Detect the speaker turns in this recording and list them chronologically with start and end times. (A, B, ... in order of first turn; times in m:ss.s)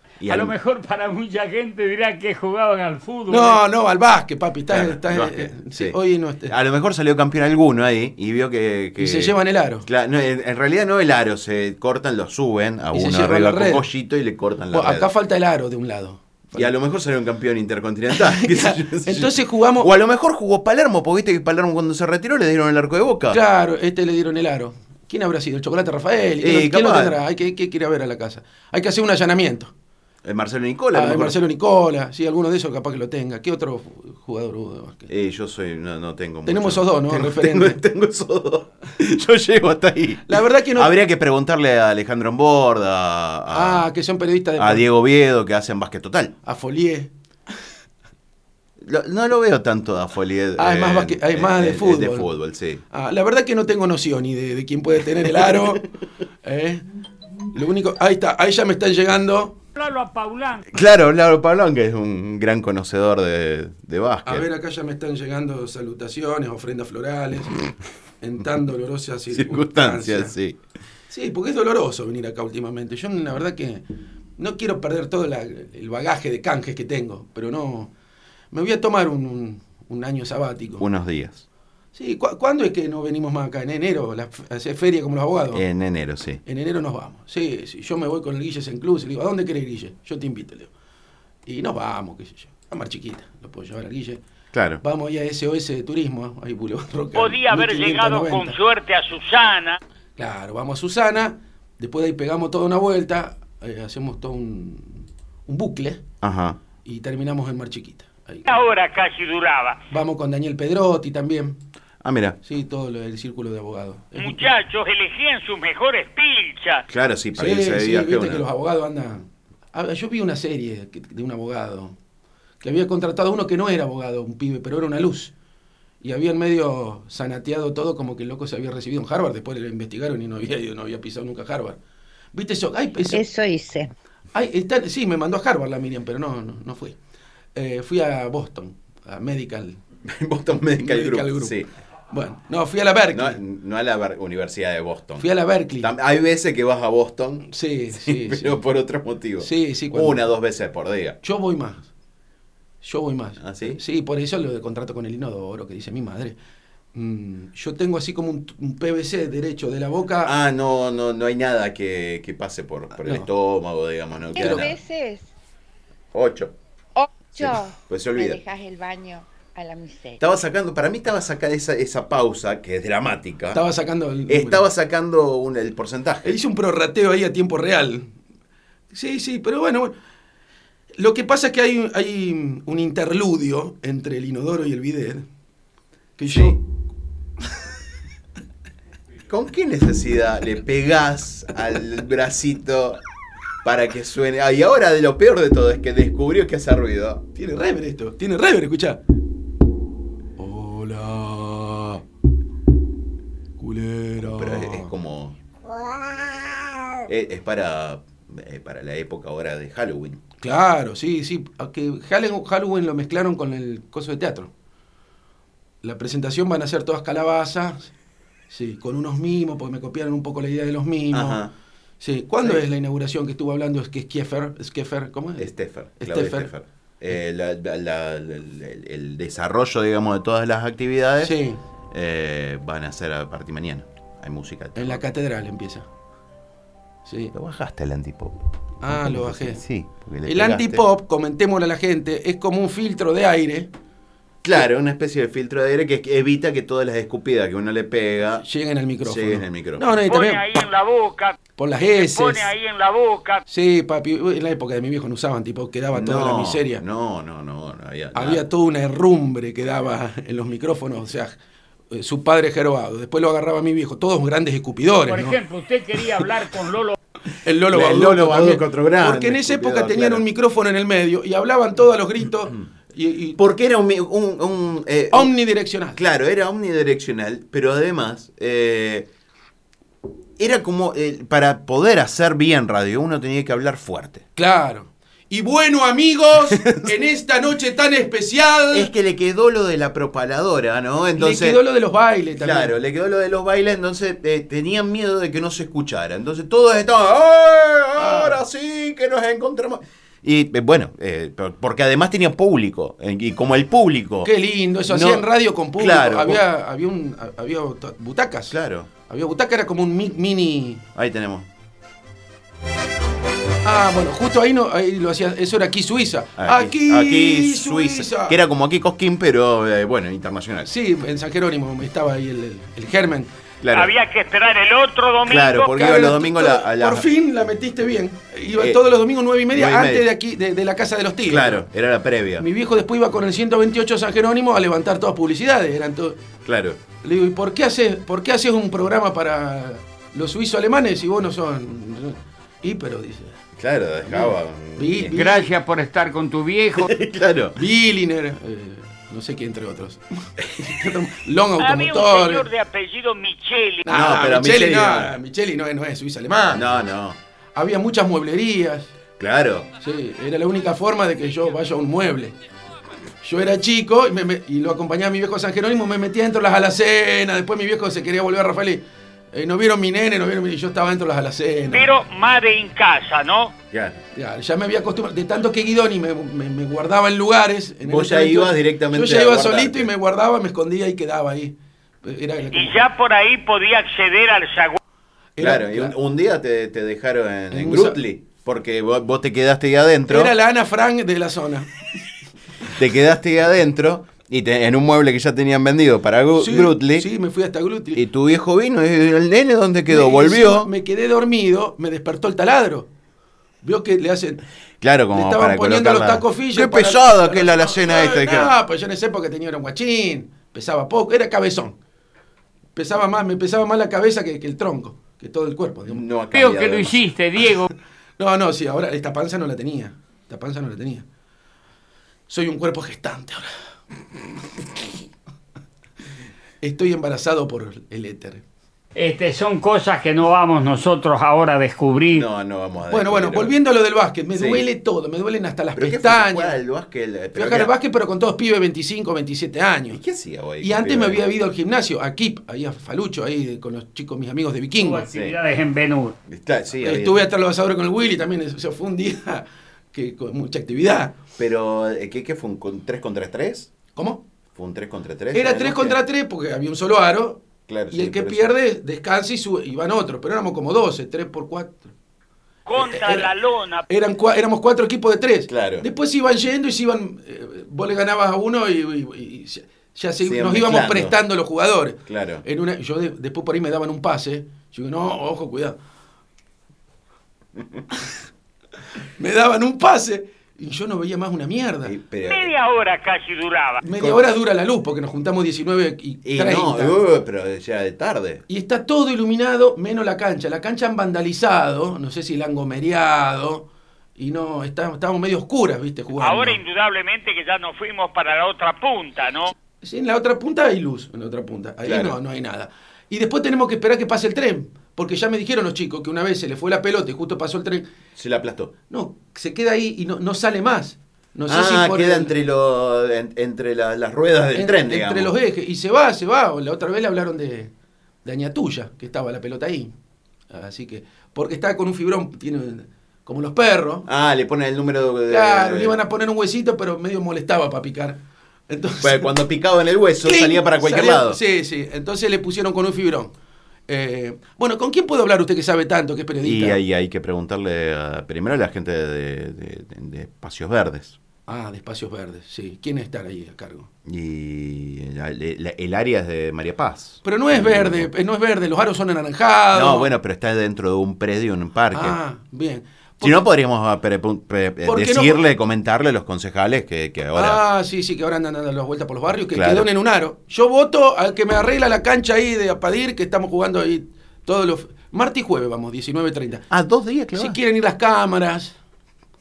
0:00.2-0:00.6 A
0:00.3-0:03.6 B
0:03.3-0:06.6 C
0:04.7-0:15.1 A
0:09.0-0:09.9 C
0:12.9-0:13.8 C
0:14.7-0:16.7 C
0:16.6-0:23.4 A
0:18.1-0:19.9 C
0:23.3-0:29.7 C
0:26.4-0:27.2 A
0:30.2-0:31.4 A
0:30.9-0:35.1 C
0:35.1-0:43.9 A
0:36.5-0:37.8 C
0:40.3-0:40.9 C
0:43.5-0:44.9 C
0:44.6-0:46.4 A
0:46.4-0:47.1 C
0:48.8-0:52.8 A
0:50.6-0:52.3 C
0:52.9-0:55.9 C
0:55.2-0:55.7 A
0:56.4-0:56.9 C
0:57.5-0:59.6 C
0:59.8-1:00.7 B
1:00.7-1:04.5 A
1:04.3-1:07.6 C
1:08.2-1:10.3 C
1:09.3-1:10.6 A
1:11.1-1:13.8 C
1:14.4-1:17.9 C
1:18.5-1:20.9 C
1:20.8-1:21.4 A
1:22.0-1:25.6 C
1:25.5-1:26.4 A
1:26.5-1:30.7 C
1:31.5-1:34.2 C
1:34.5-1:34.8 A
1:34.8-1:38.6 C
1:37.2-1:39.8 D
1:40.2-1:46.0 C
1:46.2-1:46.6 A
1:46.8-1:48.6 C
1:48.5-1:49.8 D
1:49.9-1:51.6 C
1:52.0-1:52.4 A
1:52.4-1:54.5 C
1:54.2-1:56.8 D
1:56.9-1:58.4 A
1:57.4-2:02.0 C
2:02.6-2:05.3 C
2:06.0-2:11.8 C
2:12.3-2:13.2 C
2:13.1-2:13.9 E
2:14.3-2:17.0 C
2:17.6-2:19.8 C
2:20.0-2:21.7 A
2:20.7-2:21.6 C
2:22.1-2:23.4 C
2:23.1-2:25.3 A
2:25.2-2:25.9 C
2:25.8-2:31.2 A
2:27.4-2:28.6 C
2:29.4-2:30.3 C
2:31.2-2:31.9 C
2:32.8-2:36.4 C
2:33.4-2:33.8 A
2:36.9-2:40.3 C
2:40.2-2:44.8 A
2:43.0-2:43.3 C
2:44.3-2:45.3 E
2:44.4-2:44.7 C
2:46.1-2:46.6 A
2:47.0-2:50.2 E
2:47.4-2:48.4 A
2:50.2-2:53.6 A
2:53.5-2:54.6 C
2:54.3-2:56.4 A
2:56.2-2:58.1 C
2:58.9-2:59.9 C
3:01.0-3:05.3 C
3:06.2-3:06.6 C
3:06.3-3:06.6 A
3:09.3-3:13.0 A
3:13.6-3:17.2 A
3:17.4-3:19.0 C
3:20.4-3:22.0 C
3:23.6-3:24.9 C
3:24.2-3:25.4 A
3:25.7-3:26.4 E
3:27.1-3:30.2 A
3:30.4-3:34.5 C
3:35.8-3:37.9 C
3:38.5-3:41.4 C
3:41.1-3:41.5 A
3:42.0-3:46.5 C
3:45.4-3:51.4 A
3:51.2-3:51.6 C
3:51.9-3:55.0 A
3:54.8-3:55.9 C
3:57.1-3:57.3 C
3:57.3-4:00.8 A
3:58.8-3:59.6 C
4:00.2-4:03.7 C
4:04.4-4:08.4 A
4:08.4-4:10.5 C
4:09.0-4:09.9 A
4:10.1-4:11.4 D
4:11.6-4:12.5 C
4:12.0-4:13.4 D
4:13.5-4:16.8 C
4:15.9-4:18.4 A
4:18.2-4:21.3 C
4:21.9-4:25.4 C
4:25.1-4:27.0 B
4:27.3-4:33.4 C
4:27.7-4:30.3 A
4:33.4-4:35.3 A
4:35.1-4:36.0 C
4:36.0-4:39.1 A
4:40.4-4:44.2 A
4:44.4-4:48.9 C
4:46.5-4:46.9 A
4:48.7-4:51.6 A
4:51.2-4:52.8 C
4:52.4-5:04.3 A
4:58.0-4:58.4 C
5:04.2-5:10.8 C
5:04.9-5:06.4 A
5:08.5-5:08.9 A
5:11.0-5:11.5 A
5:13.6-5:18.4 C
5:16.4-5:20.7 A
5:20.6-5:23.3 C
5:23.6-5:23.9 A
5:23.7-5:25.7 D
5:25.3-5:27.1 A
5:25.7-5:31.6 C
5:28.6-5:28.8 A
5:29.5-5:30.1 A
5:31.3-5:32.5 A
5:32.4-5:36.2 C
5:36.4-5:36.8 A
5:37.0-5:43.4 C
5:43.6-5:45.3 A
5:44.1-5:45.5 C
5:45.1-5:46.9 B
5:46.8-5:47.6 A
5:47.6-5:52.5 C
5:51.6-5:53.9 D
5:53.8-5:56.7 C
5:53.9-5:55.2 A
5:56.5-5:57.2 A
5:57.6-5:58.9 C
5:59.2-5:59.7 A
5:59.8-6:02.4 C
6:03.2-6:11.9 C
6:11.7-6:13.5 D
6:13.7-6:14.0 A
6:14.2-6:22.9 C
6:17.8-6:19.9 A
6:22.5-6:24.8 D
6:25.4-6:26.0 C
6:25.4-6:30.4 A
6:27.5-6:28.0 C
6:30.1-6:31.7 C
6:32.7-6:37.1 A
6:36.4-6:38.0 C
6:37.9-6:40.7 A
6:39.9-6:42.9 C
6:43.6-6:44.4 C
6:44.8-6:48.5 A
6:45.1-6:51.8 C
6:52.8-6:56.0 C
6:55.9-6:57.1 A
6:56.3-6:57.7 B
6:58.2-7:01.1 C
7:02.3-7:03.5 C
7:06.6-7:08.4 C
7:09.0-7:12.3 B
7:12.1-7:13.6 A
7:12.9-7:16.6 C
7:14.4-7:14.7 A
7:15.8-7:17.7 A
7:17.4-7:20.0 C
7:19.9-7:21.3 A
7:20.6-7:25.1 C
7:24.8-7:26.2 B
7:25.1-7:25.4 A
7:26.3-7:27.3 A
7:26.8-7:31.2 C
7:31.4-7:33.7 A
7:34.0-7:34.2 C
7:34.6-7:36.0 A
7:35.3-7:41.9 C
7:37.7-7:38.5 A
7:42.7-7:43.9 D
7:42.8-7:43.3 C
7:43.9-7:55.8 C
7:45.5-7:45.8 A
7:50.2-7:51.2 A
7:52.1-7:52.4 A
7:59.2-8:02.0 C
8:01.8-8:02.5 A
8:02.3-8:03.8 D
8:03.8-8:07.0 C
8:04.0-8:04.2 A
8:06.2-8:08.4 A
8:08.5-8:16.6 C
8:16.2-8:19.5 D
8:19.8-8:27.9 C
8:21.8-8:22.2 A
8:28.2-8:28.7 A
8:28.9-8:32.3 C
8:31.5-8:35.3 A
8:34.6-8:37.7 C
8:38.2-8:39.9 C
8:40.5-8:44.1 C
8:44.1-8:46.0 A
8:45.3-8:49.4 C
8:49.0-8:51.4 A
8:50.2-8:53.3 C
8:53.9-8:56.8 C
8:56.4-9:01.2 A
9:01.5-9:03.9 C
9:04.0-9:08.1 A
9:07.2-9:10.1 C
9:09.7-9:12.2 A
9:11.9-9:13.4 C
9:13.2-9:17.6 A
9:14.8-9:15.5 C
9:17.3-9:26.7 C
9:19.5-9:19.9 A
9:26.7-9:27.6 A
9:27.3-9:28.8 C